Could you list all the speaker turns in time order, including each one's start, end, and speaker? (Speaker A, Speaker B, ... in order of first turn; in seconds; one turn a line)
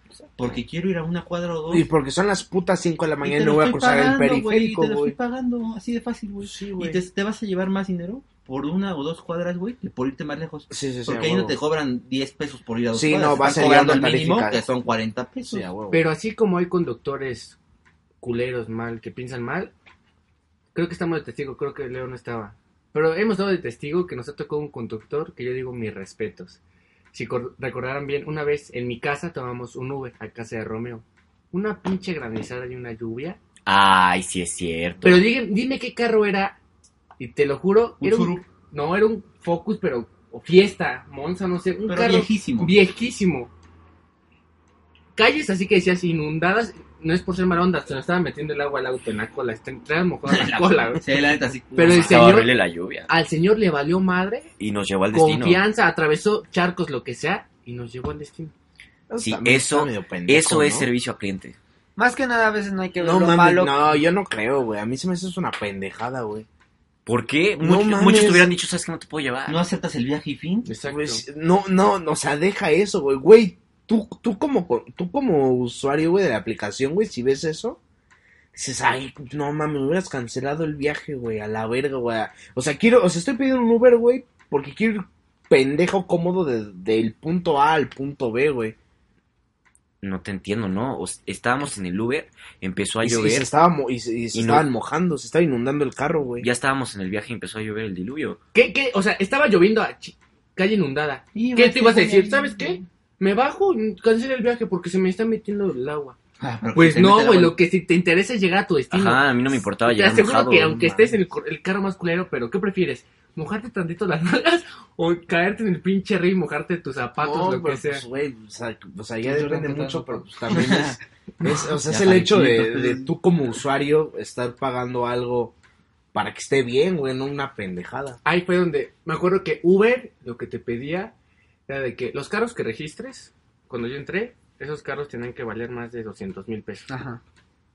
Speaker A: 0.4-1.9
Speaker B: 1.7-5.2
Speaker A: 3.2-15.7
Speaker B: 6.4-7.0
Speaker B: 10.7-11.6
Speaker B: 12.9-14.6
Speaker B: 15.4-16.0
Speaker C: 15.9-17.6
Speaker C: 18.2-19.7
Speaker C: 20.7-26.6
Speaker C: 27.1-33.4
Speaker D: 33.6-35.2
Speaker C: 35.0-36.6
Speaker C: 37.2-43.5
Speaker A: 38.0-38.5
Speaker A: 41.8-42.8
Speaker C: 45.1-51.2
Speaker A: 50.2-52.1
Speaker C: 51.7-52.5
Speaker B: 51.8-52.1
Speaker D: 51.8-53.1
Speaker C: 53.1-54.5
Speaker D: 54.6-55.6
Speaker C: 55.1-58.5
Speaker B: 59.1-60.9
Speaker D: 59.2-61.5
Speaker E: 62.0-63.8
Speaker B: 63.0-66.5
Speaker D: 67.0-69.6
Speaker B: 67.6-68.5
Speaker A: 69.5-70.7
Speaker C: 70.7-71.2
Speaker B: 70.9-77.8
Speaker B: 78.5-88.8
Speaker D: 90.0-93.5
Speaker B: 93.0-96.5
Speaker D: 94.3-94.7
Speaker D: 96.4-98.4
Speaker C: 98.5-106.2
Speaker A: 101.3-102.8
Speaker A: 106.4-107.6
Speaker C: 106.7-118.0
Speaker D: 108.9-110.8
Speaker B: 110.6-111.2
Speaker B: 117.2-125.5
Speaker E: 119.2-120.9
Speaker A: 120.5-120.9
Speaker A: 121.8-123.1
Speaker B: 126.1-128.2
Speaker C: 128.2-131.1
Speaker C: 131.7-136.9
Speaker E: 136.9-137.2